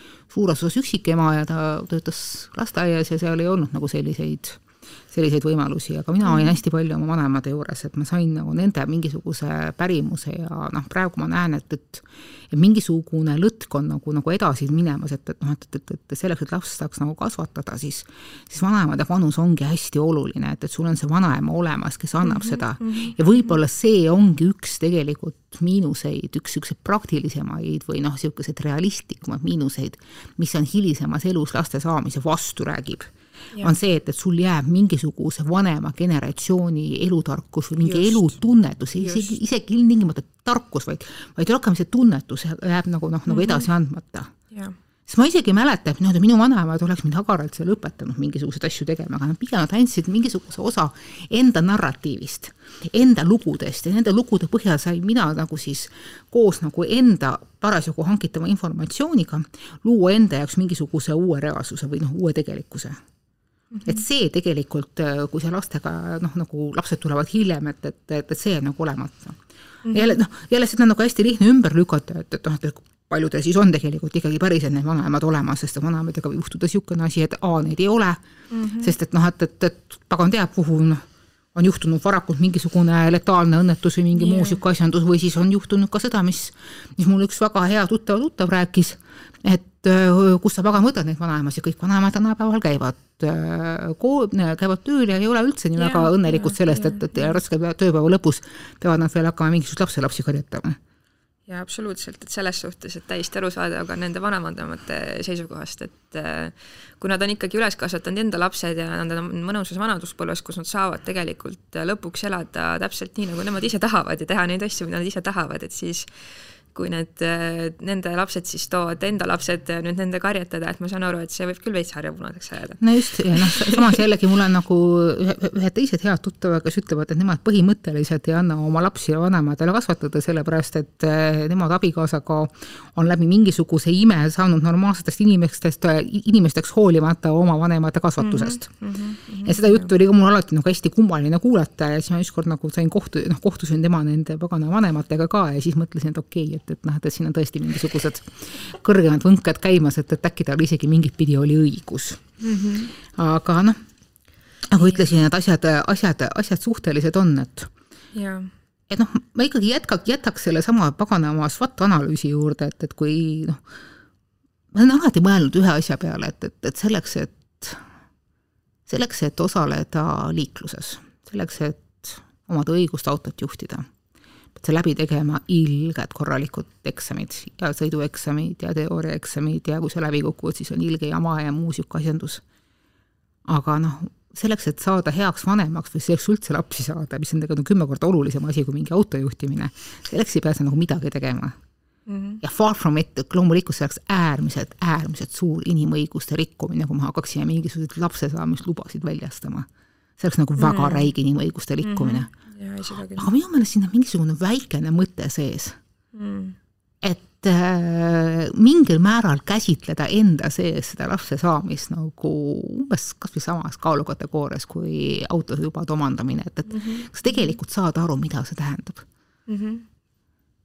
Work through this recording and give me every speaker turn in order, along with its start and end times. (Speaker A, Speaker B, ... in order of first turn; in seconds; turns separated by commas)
Speaker A: 0.3-44.3, Speaker B: 6.2-6.5, Speaker B: 22.2-23.6, Speaker B: 37.8-38.4, Speaker B: 39.0-39.3, Speaker B: 43.3-43.7, Speaker A: 45.1-63.0, Speaker B: 63.7-64.0, Speaker A: 63.9-69.4, Speaker B: 69.8-70.2, Speaker A: 69.9-78.2, Speaker B: 78.5-79.0, Speaker A: 78.8-81.0, Speaker A: 81.5-100.8, Speaker B: 84.2-84.6, Speaker B: 95.8-97.4, Speaker B: 101.5-116.1, Speaker B: 116.7-124.0, Speaker A: 122.8-138.7, Speaker B: 138.2-139.9, Speaker A: 139.4-152.2, Speaker B: 152.4-152.9, Speaker A: 153.0-153.8, Speaker A: 154.7-157.7, Speaker B: 158.1-158.5, Speaker A: 158.9-163.6, Speaker A: 164.7-167.8, Speaker A: 168.9-173.9, Speaker A: 174.6-182.4, Speaker A: 183.5-191.6, Speaker B: 192.1-192.4, Speaker A: 192.4-199.7, Speaker A: 200.2-202.3, Speaker B: 200.6-201.1, Speaker B: 201.8-203.3, Speaker A: 203.1-205.8, Speaker B: 206.1-206.6, Speaker A: 207.0-219.1, Speaker B: 216.7-217.5, Speaker B: 219.5-219.8